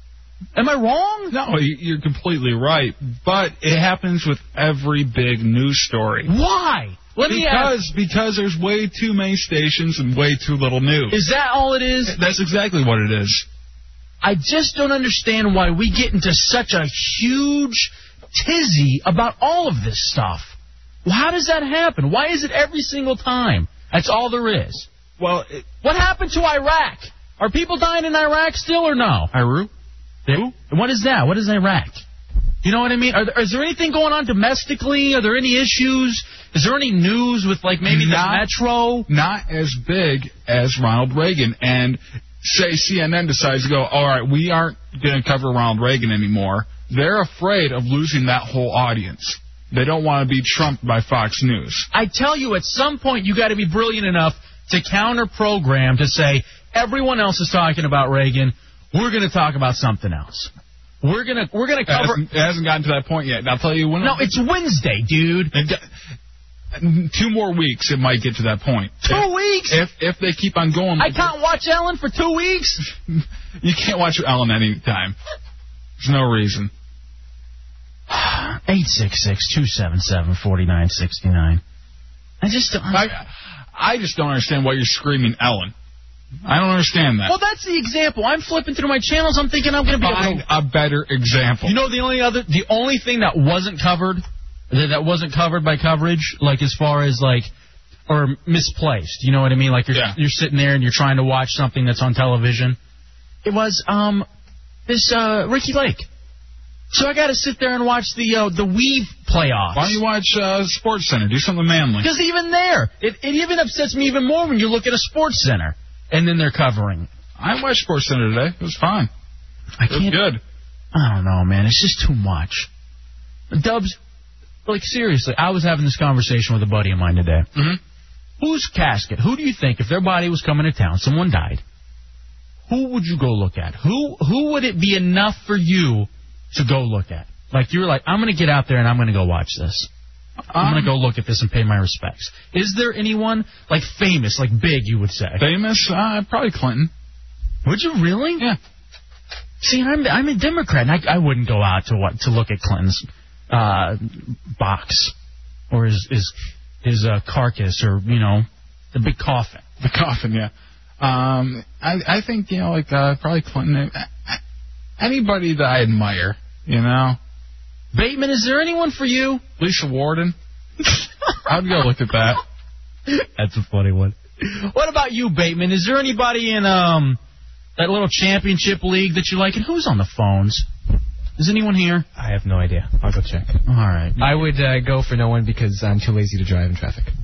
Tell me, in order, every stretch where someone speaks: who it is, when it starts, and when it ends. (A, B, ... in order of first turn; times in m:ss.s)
0:00.5-0:01.3 A
0:01.3-0:06.3 B
0:06.2-0:07.8 A
0:07.2-0:11.2 B
0:11.1-0:12.2 A
0:12.1-0:13.4 B
0:14.2-0:29.7 A
0:30.2-0:32.0 A
0:32.6-0:39.1 A
0:37.8-0:38.5 B
0:39.1-0:51.9 B
0:51.9-1:02.2 A
1:01.9-1:04.3 B
1:04.0-1:05.5 A
1:05.5-1:05.8 B
1:06.8-1:11.3 B
1:09.0-1:09.8 A
1:11.0-1:12.8 A
1:13.1-1:15.2 B
1:16.0-1:16.7 B
1:18.1-1:21.6 A
1:22.4-1:23.1 A
1:22.9-1:25.7 B
1:26.4-1:27.3 B
1:27.2-1:30.4 A
1:30.0-1:31.8 B
1:31.6-1:37.5 A
1:38.1-1:42.8 A
1:43.4-1:44.3 A
1:44.9-1:46.1 A
1:46.9-1:50.0 A
1:49.7-1:52.1 B
1:52.0-1:57.1 A
1:57.4-1:59.1 B
1:59.8-2:00.2 A
1:59.9-2:00.4 B
2:00.9-2:02.7 A
2:03.5-2:04.0 A
2:04.6-2:07.5 A
2:07.5-2:07.8 B
2:08.4-2:11.6 A
2:12.7-2:19.9 A
2:20.5-2:20.9 B
2:20.5-2:25.4 A
2:25.4-2:26.9 B
2:27.6-2:28.4 A
2:29.6-2:35.1 A
2:35.7-2:39.6 A
2:39.8-2:44.4 B
2:45.0-2:47.2 B
2:47.9-2:49.4 A
2:49.6-2:50.4 B
2:51.4-2:52.4 B
2:53.1-2:57.2 A
2:57.8-3:00.6 A
3:01.4-3:02.1 A
3:02.2-3:03.5 C
3:03.6-3:04.4 A
3:04.2-3:07.1 C